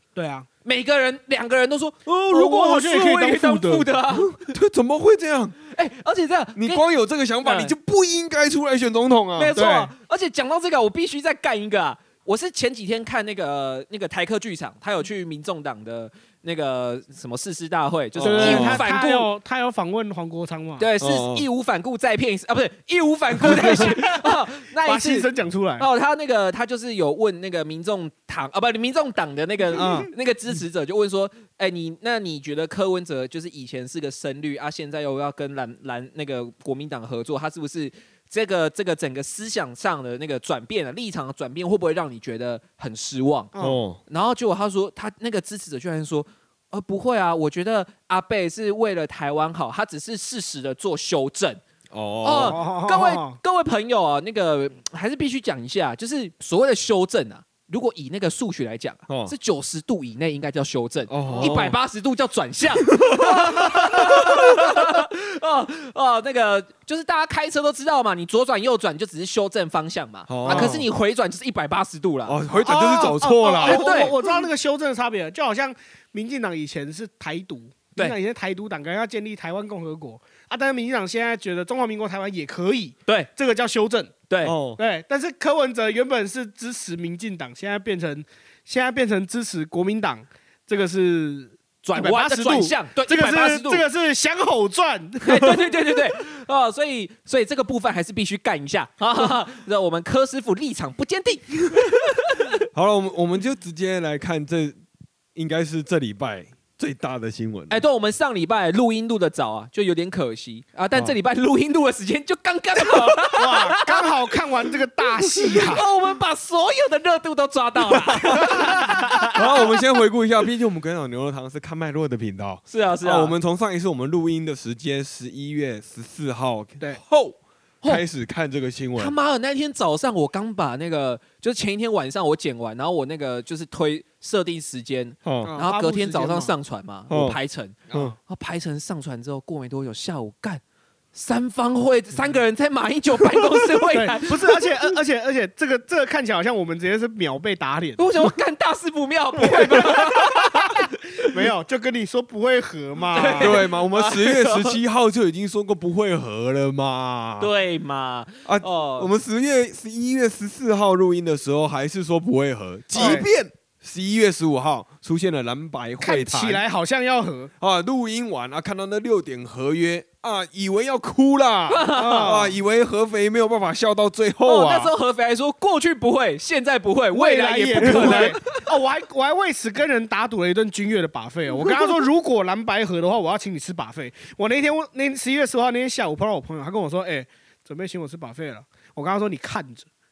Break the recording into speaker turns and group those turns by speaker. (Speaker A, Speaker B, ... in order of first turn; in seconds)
Speaker A: 0.1-0.5, 2.3-3.9, 9.5-9.9, 18.2-20.9, 23.4-24.3, 24.8-25.8, 29.7-30.1, 43.5-43.8, 52.2-53.4, 61.3-61.7, 63.5-63.8, 70.5-70.8, 72.5-84.1, 84.8-95.7, 113.3-115.8, 118.3-119.0, 135.4-136.5, 137.9-138.2, 143.9-148.1, 149.4-150.7, 151.2-153.6, 162.9-163.3, 166.0-167.5, 171.9-172.6, 177.1-189.9
Speaker B: 0.6-4.5, 5.7-6.8, 7.4-7.7, 9.3-19.3, 20.8-25.3, 25.8-43.5, 44.1-51.6, 52.2-72.4, 73.6-74.1, 84.3-84.5, 91.8-93.8, 95.2-102.5, 107.7-114.1, 115.5-119.6, 122.7-123.3, 129.0-140.6, 141.1-144.6, 148.0-150.9, 153.1-154.8, 157.4-159.1, 162.9-163.2, 171.7-172.3, 174.4-178.6
Speaker C: 4.2-5.6, 6.5-9.6, 18.1-18.8, 21.0-21.4, 43.6-44.0, 51.9-52.6, 59.1-59.3, 61.1-61.7, 62.9-63.4, 70.3-70.9, 72.2-74.1, 84.4-84.8, 102.7-104.7, 105.3-107.8, 119.3-129.1, 135.2-135.5, 137.1-137.4, 153.4-157.5, 158.4-166.6, 167.6-174.9, 177.8-178.3